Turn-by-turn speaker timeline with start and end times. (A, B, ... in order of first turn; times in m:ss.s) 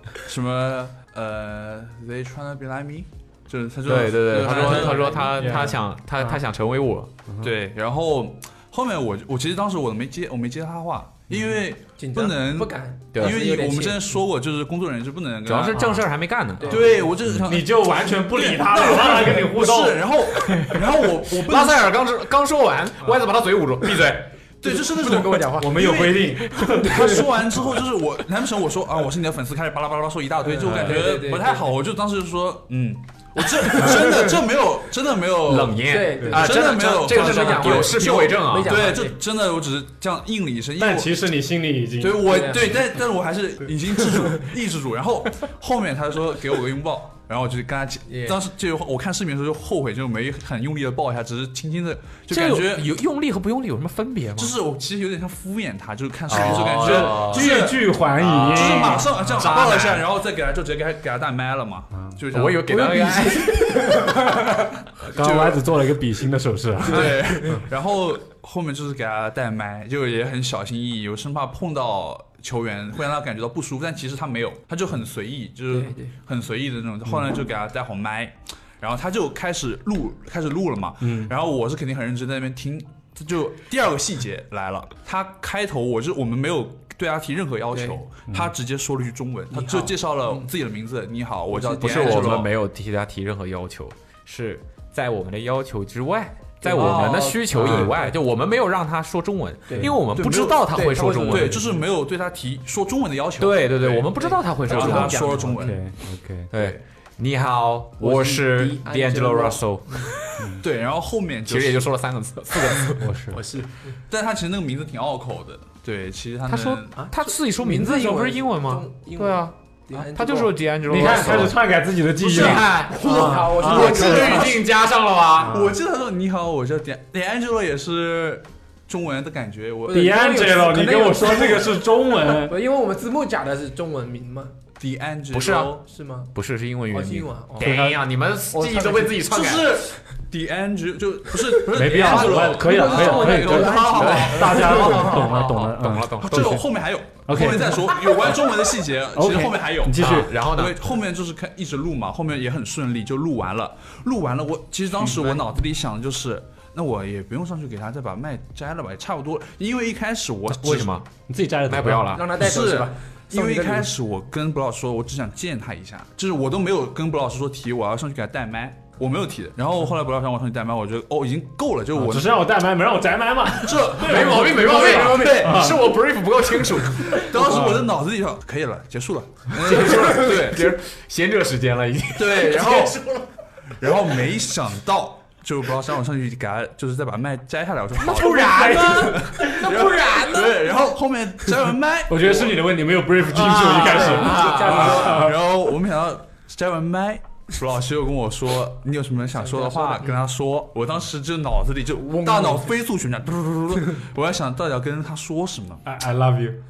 0:00.3-0:05.5 A
0:03.8-0:07.1 B
0:04.4-0:05.7 C
0:04.5-0:06.4 D
0:07.3-0:07.5 D
0:07.4-0:16.0 A
0:11.3-0:11.6 D
0:12.0-0:14.2 C
0:13.1-0:13.4 B
0:15.4-0:16.8 B
0:15.7-0:16.0 D
0:16.6-0:17.2 C
0:16.7-0:21.9 A
0:17.4-0:20.8 D
0:21.3-0:24.4 B
0:24.6-0:26.0 C
0:24.6-0:41.1 A
0:25.5-0:27.3 D
0:26.8-0:27.2 C
0:30.4-0:31.7 C
0:30.6-0:31.0 D
0:33.8-0:34.3 C
0:35.5-0:38.9 B
0:35.9-0:39.2 C
0:36.2-0:36.5 D
0:40.8-0:42.7 D
0:42.0-0:52.9 A
0:42.2-0:42.8 C
0:48.1-0:48.4 C
0:52.3-0:54.6 B
0:54.4-1:03.2 A
0:56.3-0:57.7 B
0:56.3-0:59.5 D
0:58.3-1:00.0 B
1:02.3-1:04.1 B
1:02.7-1:04.3 C
1:05.0-1:05.6 A
1:05.1-1:07.6 D
1:06.8-1:32.5 A
1:06.9-1:07.6 C
1:15.7-1:16.1 C
1:21.0-1:21.3 D
1:27.7-1:28.0 C
1:28.3-1:28.5 D
1:29.5-1:30.5 C
1:31.5-1:32.4 C
1:31.8-1:41.6 B
1:36.6-1:36.9 C
1:36.7-1:38.1 A
1:37.6-1:37.9 D
1:39.7-1:40.0 C
1:39.8-1:45.8 A
1:40.7-1:41.5 C
1:41.5-1:41.8 D
1:43.4-1:45.3 B
1:44.2-1:45.8 C
1:45.5-1:46.5 D
1:46.5-1:50.4 B
1:48.0-1:50.1 C
1:50.4-1:50.6 D
1:50.6-1:51.9 A
1:51.5-1:53.4 B
1:53.0-1:53.4 D
1:53.3-1:54.0 C
1:54.1-1:57.0 A
1:56.5-2:01.6 B
1:57.0-2:00.6 C
2:00.8-2:04.5 D
2:02.2-2:05.6 B
2:02.3-2:02.6 A
2:02.8-2:04.6 C
2:03.6-2:04.6 A
2:05.4-2:05.8 D
2:05.4-2:10.2 A
2:09.9-2:14.5 C
2:09.9-2:12.6 D
2:14.8-2:15.8 A
2:15.3-2:15.7 B
2:15.8-2:16.3 C
2:16.3-2:19.9 B
2:16.9-2:17.8 C
2:17.6-2:18.0 D
2:18.5-2:19.2 C
2:19.2-2:40.9 A
2:21.7-2:26.7 D
2:21.8-2:25.0 C
2:23.9-2:24.5 B
2:25.0-2:26.6 B
2:27.3-2:28.4 D
2:29.1-2:30.4 D
2:30.0-2:30.8 B
2:40.5-2:41.1 B
2:41.3-2:42.3 D
2:41.7-2:42.3 B
2:42.1-2:43.9 C
2:42.4-2:52.5 A
2:51.9-2:55.9 D
2:53.6-2:55.8 A
2:53.9-2:57.6 B
2:54.6-2:55.4 C
2:56.9-3:00.8 A
2:59.6-3:03.3 B
3:02.2-3:03.0 A
3:03.8-3:12.7 A
3:08.0-3:10.8 B
3:08.4-3:09.2 D
3:12.1-3:15.4 D
3:13.3-3:25.8 A
3:13.3-3:15.0 B
3:13.6-3:15.4 C
3:19.4-3:20.2 C
3:22.2-3:22.7 C
3:25.8-3:26.6 D